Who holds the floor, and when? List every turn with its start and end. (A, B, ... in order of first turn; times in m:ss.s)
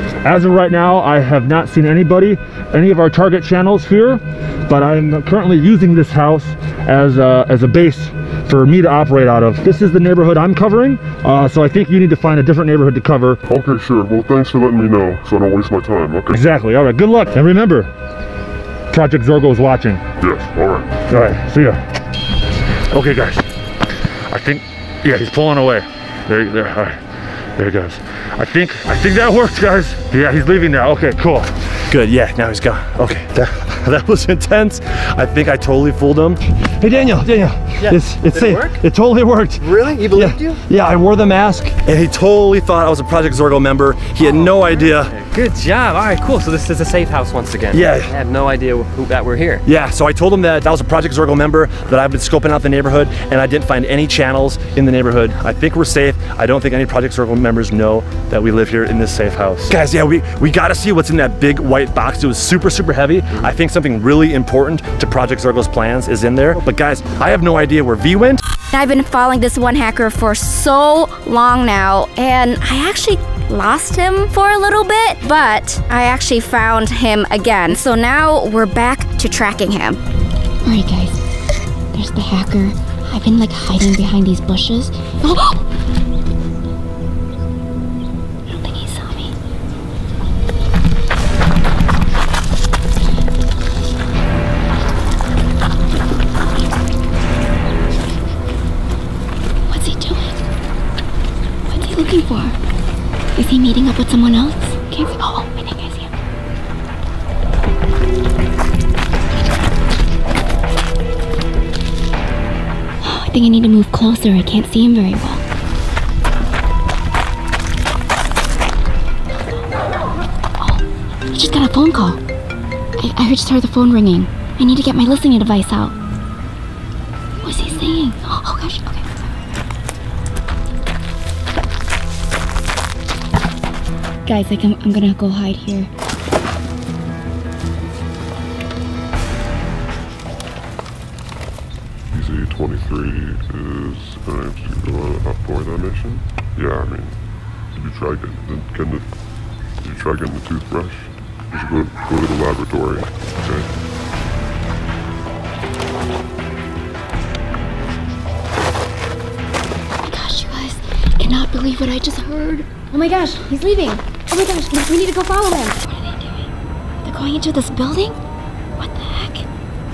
0:00.2-0:13.4 A
0:13.5-0:16.5 B
0:16.3-0:17.9 A
0:18.9-0:20.0 A
0:20.2-0:21.0 B
0:21.1-0:21.8 A
0:22.9-0:23.4 A
0:24.3-0:27.0 A
0:27.6-0:45.2 A
0:37.8-0:38.8 C
0:39.6-0:40.6 C
0:44.2-0:49.6 C
0:47.7-0:48.1 A
0:49.6-1:08.4 A
1:08.7-1:20.0 D
1:20.6-1:21.3 D
1:21.9-1:25.6 D
1:28.5-1:29.3 D
1:39.7-1:40.4 D
1:41.7-1:42.6 D
1:43.4-1:46.1 D
1:53.0-1:55.4 D
2:00.6-2:02.2 D
2:03.0-2:06.0 D
2:07.4-2:09.5 D
2:14.3-2:15.9 D
2:22.1-2:27.2 B
2:27.7-2:29.1 B
2:29.8-2:33.8 B
2:40.0-2:46.5 D
2:47.0-2:48.2 D
2:48.8-2:49.4 D